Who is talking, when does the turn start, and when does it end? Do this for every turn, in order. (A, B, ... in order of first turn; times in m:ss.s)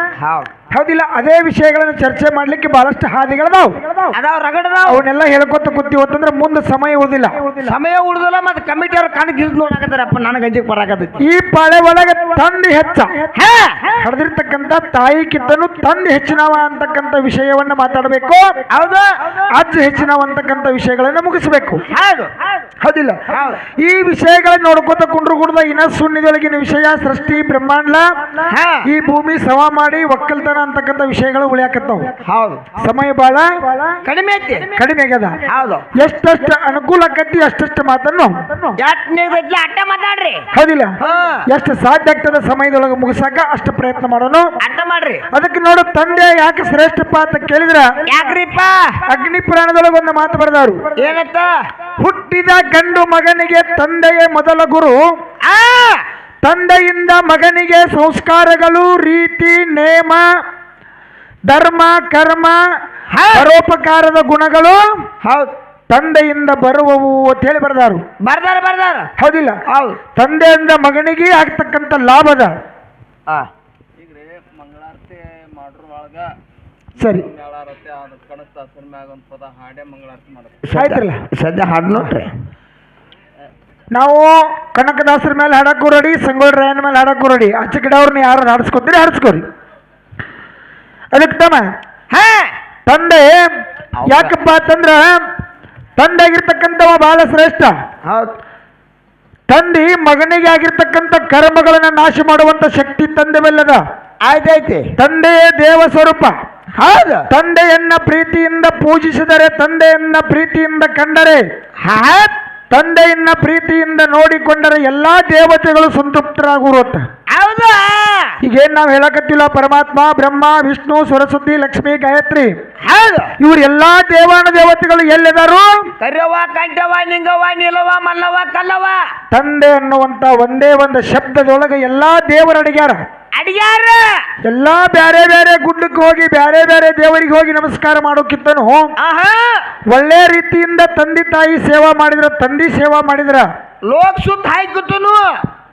0:00.2-0:00.5 A
0:00.7-0:03.9 B
0:04.1-0:05.0 A
0:04.8-0:07.6 B
0:07.6-0:11.2 A
0:11.2-0:13.3 B
0:13.3-0:13.8 A
0:14.0-0:18.6 B
0:18.7-0:19.4 A
0:19.5-0:21.8 B
0:21.9-0:22.3 A
0:22.8-0:28.0 B
0:23.3-0:23.6 A
0:28.4-0:28.9 A
0:28.8-0:32.1 B
0:32.2-0:32.6 A
0:32.8-0:33.6 B
0:34.0-0:34.7 A
0:34.7-0:38.6 B
0:35.4-0:35.9 A
0:38.8-0:40.5 A
0:40.5-0:44.5 B
0:41.0-0:41.4 A
0:44.6-0:45.2 A
0:45.3-0:47.9 B
0:48.0-0:49.0 A
0:49.0-0:51.0 B
0:50.9-0:51.6 A
0:52.0-0:55.0 B
0:55.4-0:56.0 A
0:56.4-1:00.2 B
1:01.5-1:02.6 B
1:03.1-1:03.4 A
1:03.3-1:04.9 B
1:05.2-1:05.5 A
1:05.9-1:08.0 B
1:08.2-1:09.1 A
1:09.2-1:09.6 B
1:09.7-1:10.0 A
1:10.1-1:12.5 B
1:14.2-1:16.4 C
1:17.0-1:17.3 B
1:17.4-1:20.5 C
1:20.6-1:22.3 A
1:20.7-1:21.2 B
1:23.9-1:29.4 B
1:31.1-1:31.6 B
1:32.1-1:32.5 A
1:32.8-1:33.3 B
1:34.0-1:34.3 A
1:34.0-1:35.2 B
1:36.0-1:37.7 B
1:38.0-1:38.4 A
1:39.5-1:43.8 B
1:44.2-1:44.8 A
1:45.0-1:46.4 B
1:46.8-1:47.2 A
1:47.3-1:51.4 B
1:51.8-1:52.3 A
1:52.7-1:57.0 B
1:57.3-1:58.4 A
1:58.4-2:02.5 B
2:02.8-2:03.3 A
2:03.4-2:05.9 B
2:06.0-2:09.0 A
2:09.3-2:13.0 B
2:13.4-2:14.2 A
2:14.4-2:18.9 B
2:19.0-2:19.6 A
2:19.9-2:23.5 B
2:23.8-2:25.3 A